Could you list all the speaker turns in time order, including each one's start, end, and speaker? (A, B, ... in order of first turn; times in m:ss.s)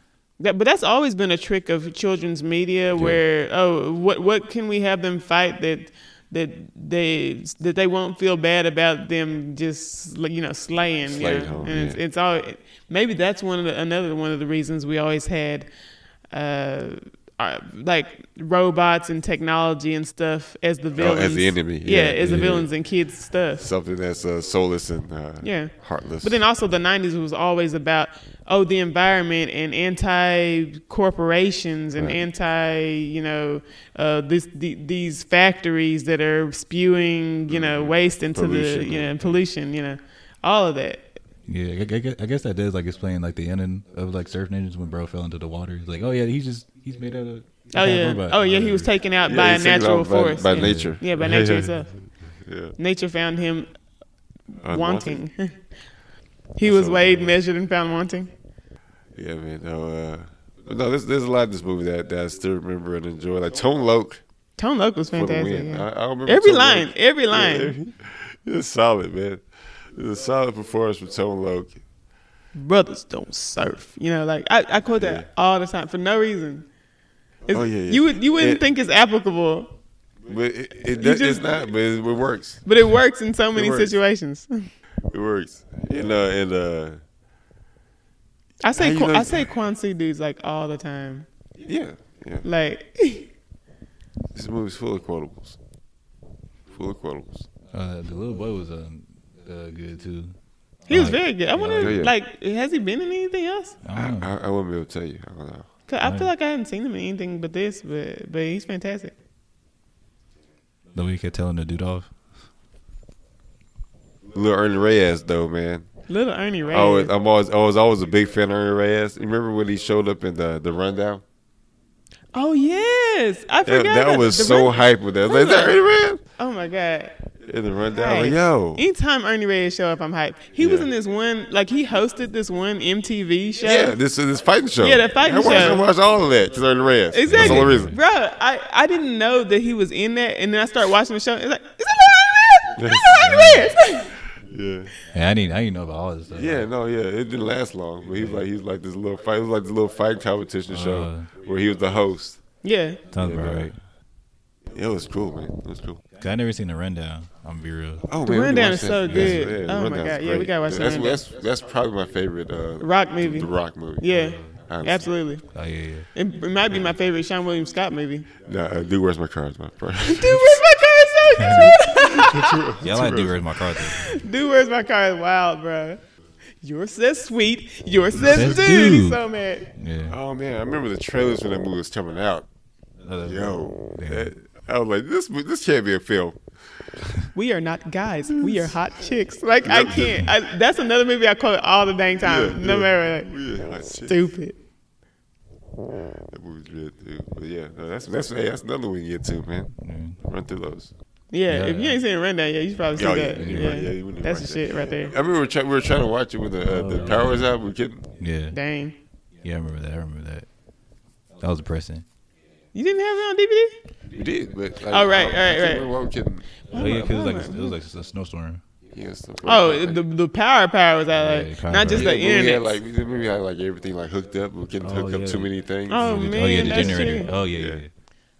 0:00.4-0:15.7 A
0:11.1-0:12.0 B
0:16.3-0:23.6 A
0:21.0-0:22.7 B
0:22.2-0:22.6 C
0:23.6-0:26.4 B
0:25.4-0:41.1 A
0:32.0-0:32.2 B
0:37.5-0:39.4 B
0:41.5-0:48.9 C
0:47.7-0:51.9 A
0:49.2-0:52.7 B
0:50.5-0:51.0 C
0:52.8-0:53.7 A
0:54.5-0:55.6 A
0:54.6-0:55.2 B
0:56.6-0:58.3 A
0:56.6-0:57.4 B
0:59.2-1:04.2 B
1:04.6-1:07.7 A
1:05.1-1:11.8 B
1:12.5-1:16.7 A
1:15.0-1:15.3 B
1:17.5-1:19.7 A
1:17.5-1:18.6 B
1:20.3-1:22.7 B
1:20.9-1:21.4 A
1:22.6-1:24.7 A
1:23.5-1:24.0 B
1:25.1-1:27.0 B
1:28.6-1:31.2 A
1:28.8-1:29.5 B
1:31.6-1:32.4 B
1:32.4-1:33.3 A
1:34.3-1:35.6 B
1:36.7-1:37.4 B
1:37.7-1:40.3 C
1:40.9-1:42.0 C
1:40.9-1:43.8 A
1:41.8-1:42.1 B
1:43.8-1:44.3 C
1:43.9-1:45.7 B
1:45.9-1:49.1 A
1:46.0-1:46.3 C
1:50.9-1:52.1 C
1:54.3-1:55.9 B
1:56.1-1:57.1 A
1:56.7-2:01.2 B
2:02.3-2:05.8 A
2:03.6-2:06.2 B
2:06.4-2:07.2 A
2:07.4-2:08.8 B
2:07.9-2:14.0 A
2:10.6-2:10.9 B
2:13.6-2:18.0 B
2:14.8-2:15.8 A
2:17.1-2:24.2 A
2:17.3-2:18.0 C
2:22.8-2:23.4 B
2:23.1-2:23.7 C
2:24.3-2:24.9 B
2:25.1-2:26.6 C
2:26.3-2:32.4 B
2:30.7-2:31.3 C
2:32.6-2:33.0 A
2:33.1-2:33.7 C
2:33.2-2:33.7 B
2:34.7-2:36.0 B
2:36.2-2:38.1 C
2:38.1-2:45.1 B
2:38.2-2:41.2 A
2:39.0-2:39.5 C
2:42.8-2:45.4 A
2:44.1-2:44.6 C
2:45.5-2:46.1 C
2:46.1-2:48.3 A
2:48.4-2:50.6 B
2:50.0-2:52.6 A
2:51.5-2:53.4 B
2:52.8-2:54.2 C
2:53.8-2:56.0 A
2:56.6-2:59.7 A
2:58.1-2:59.2 C
2:58.3-2:58.5 B
2:59.8-3:00.2 C
3:00.1-3:02.5 B
3:03.0-3:04.3 C
3:03.2-3:06.4 B
3:07.3-3:13.3 A
3:08.4-3:08.7 B
3:09.6-3:10.2 B
3:12.2-3:14.2 B
3:13.9-3:14.6 A
3:16.2-3:20.9 B
3:19.8-3:20.2 C
3:21.3-3:25.1 A
3:21.5-3:22.0 C
3:22.9-3:28.0 B
3:23.3-3:23.9 C
3:26.6-3:27.5 C
3:28.2-3:28.6 C
3:28.5-3:29.0 A
3:29.4-3:30.5 C
3:31.4-3:32.0 C
3:32.7-3:33.7 A
3:34.1-3:37.0 B
3:34.9-3:35.9 A
3:36.7-3:37.8 A
3:36.7-3:38.6 C
3:38.9-3:40.0 B
3:39.4-3:42.7 A
3:41.1-3:42.1 C
3:41.9-3:47.8 B
3:44.8-3:47.9 C
3:45.9-3:47.3 A